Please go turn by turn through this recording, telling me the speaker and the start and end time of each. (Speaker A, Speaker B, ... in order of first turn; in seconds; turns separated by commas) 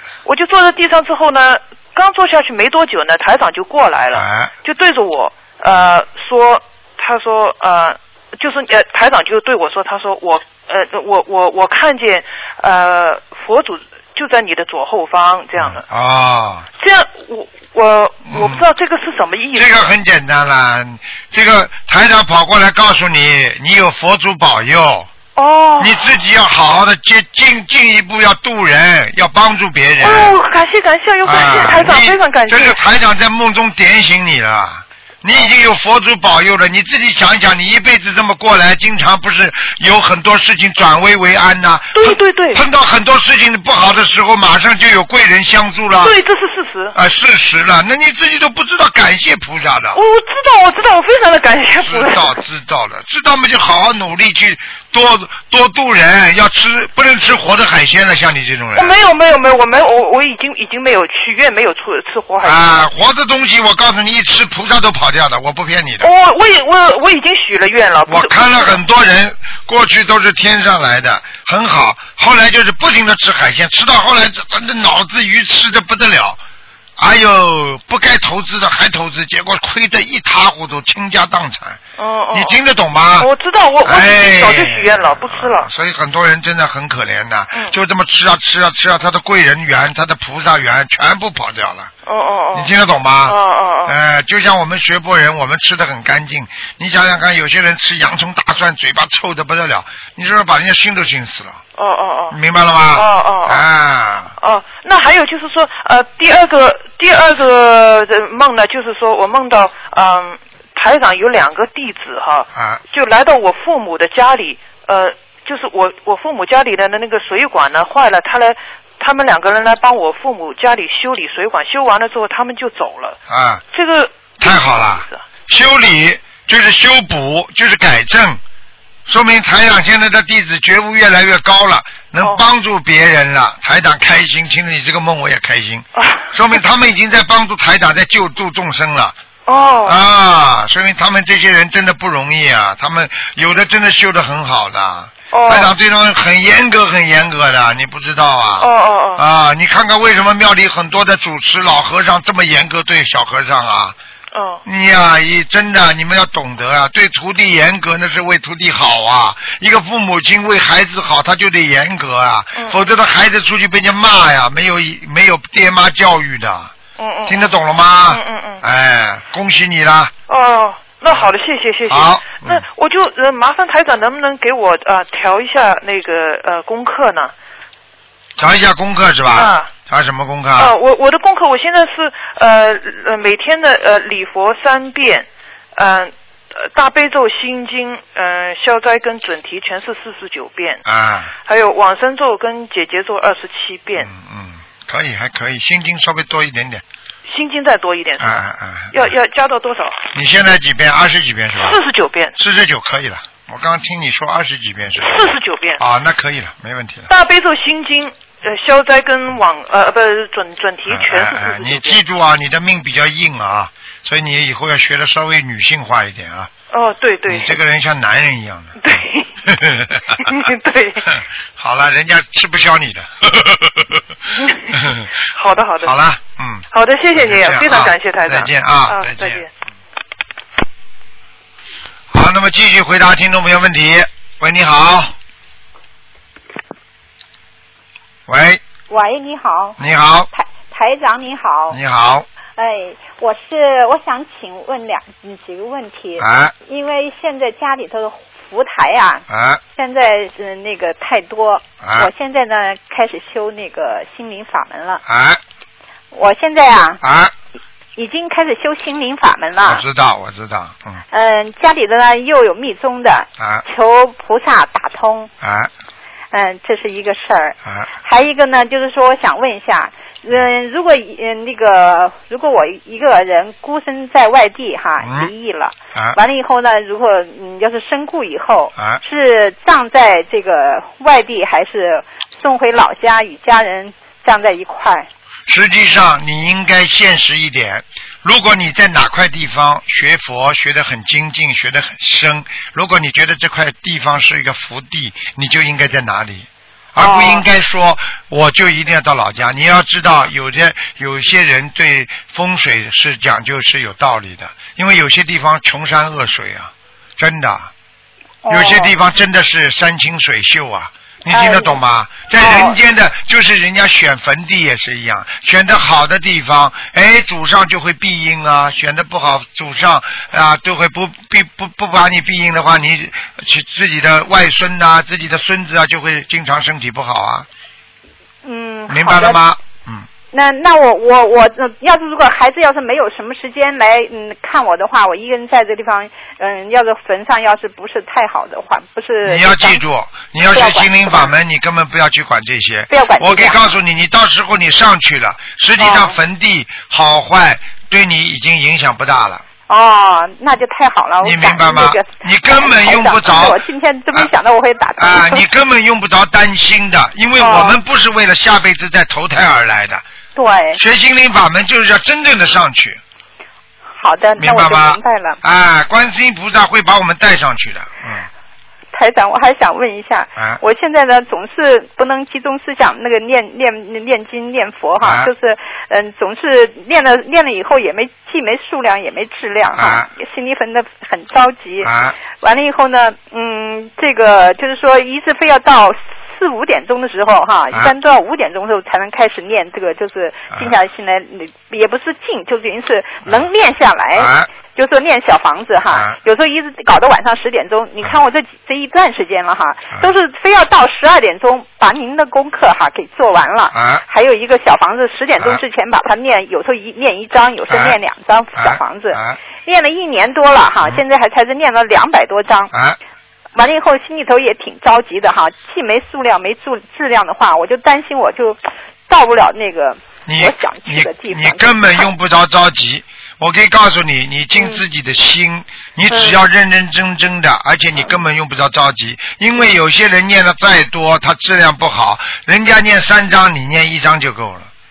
Speaker A: 0.2-15.8, Speaker B: 4.1-4.5, Speaker B: 15.6-16.7, Speaker A: 16.8-19.9, Speaker B: 18.3-18.6, Speaker B: 19.5-25.1, Speaker A: 25.4-26.0, Speaker B: 25.8-30.4, Speaker A: 30.0-32.8, Speaker B: 31.2-46.1, Speaker A: 41.9-42.6, Speaker A: 46.0-46.9, Speaker B: 46.9-50.0, Speaker A: 49.9-52.4, Speaker B: 51.8-58.9, Speaker A: 58.7-62.7, Speaker B: 62.4-66.1, Speaker A: 66.0-68.8, Speaker B: 68.1-76.4, Speaker B: 77.0-81.8, Speaker A: 82.0-82.6, Speaker B: 82.3-83.3, Speaker A: 83.2-85.7, Speaker B: 83.8-91.9, Speaker A: 92.0-92.7, Speaker B: 92.5-101.6, Speaker A: 93.3-93.9, Speaker A: 101.8-102.4, Speaker B: 102.3-104.3, Speaker A: 102.9-103.6, Speaker A: 104.4-123.2, Speaker B: 112.5-112.8, Speaker B: 123.3-123.6, Speaker A: 123.7-125.2, Speaker B: 124.4-128.4, Speaker B: 129.1-139.2, Speaker A: 136.0-136.6, Speaker A: 139.5-140.0, Speaker B: 139.8-154.0, Speaker A: 145.3-145.7, Speaker A: 148.6-149.2, Speaker A: 154.3-154.6, Speaker B: 154.6-166.7, Speaker A: 167.0-167.5, Speaker B: 167.2-170.1, Speaker A: 168.1-168.6, Speaker A: 170.3-177.3, Speaker B: 171.9-172.7, Speaker B: 178.4-180.7, Speaker A: 179.3-179.7, Speaker A: 180.6-190.8, Speaker B: 190.8-191.3, Speaker A: 191.5-194.1, Speaker B: 194.0-196.8, Speaker A: 197.3-200.0, Speaker B: 198.2-199.1, Speaker B: 200.1-201.8, Speaker A: 201.6-202.3, Speaker B: 202.4-207.1, Speaker A: 205.0-205.8, Speaker A: 207.1-212.0, Speaker B: 210.9-216.5, Speaker A: 216.7-217.5, Speaker B: 217.3-220.2, Speaker A: 218.8-219.3, Speaker A: 220.2-221.2, Speaker B: 221.6-224.0, Speaker A: 224.3-225.9, Speaker B: 224.7-225.1, Speaker B: 225.8-229.4, Speaker A: 226.7-229.5, Speaker B: 232.1-235.1, Speaker B: 238.3-238.6, Speaker C: 238.9-239.8, Speaker B: 239.8-240.3, Speaker C: 240.3-241.8, Speaker B: 241.7-242.2, Speaker C: 242.6-255.0, Speaker B: 246.2-246.5, Speaker B: 249.3-249.6, Speaker B: 251.8-252.1, Speaker B: 255.0-255.4, Speaker C: 256.1-257.0, Speaker B: 257.0-257.3, Speaker C: 257.9-259.8, Speaker B: 259.6-261.0, Speaker C: 261.1-265.3, Speaker B: 263.4-263.6, Speaker B: 265.4-265.7, Speaker C: 266.3-285.1, Speaker B: 267.6-267.9, Speaker B: 275.0-275.3, Speaker B: 278.8-279.0, Speaker B: 285.5-307.7, Speaker C: 297.0-297.4, Speaker C: 308.4-308.9, Speaker B: 308.5-327.5, Speaker C: 311.3-311.8, Speaker C: 312.4-312.8, Speaker C: 328.4-329.4, Speaker B: 328.9-330.1, Speaker C: 330.3-339.8, Speaker B: 339.2-349.4, Speaker C: 340.4-341.3, Speaker C: 342.9-343.6, Speaker C: 345.8-346.2, Speaker C: 349.7-355.4, Speaker B: 351.2-353.6, Speaker B: 355.0-360.0, Speaker C: 357.4-357.8, Speaker C: 360.4-360.8, Speaker B: 360.7-363.0, Speaker C: 364.0-365.4, Speaker B: 364.4-368.3, Speaker C: 368.9-412.7, Speaker B: 375.0-375.3, Speaker B: 379.7-380.1, Speaker B: 381.8-382.1, Speaker B: 394.1-394.5, Speaker B: 395.9-396.2, Speaker B: 403.7-404.0, Speaker B: 407.7-408.0, Speaker B: 408.6-409.4, Speaker B: 412.7-413.0, Speaker C: 413.5-422.1, Speaker B: 420.2-434.7, Speaker C: 424.6-424.8, Speaker C: 426.1-426.4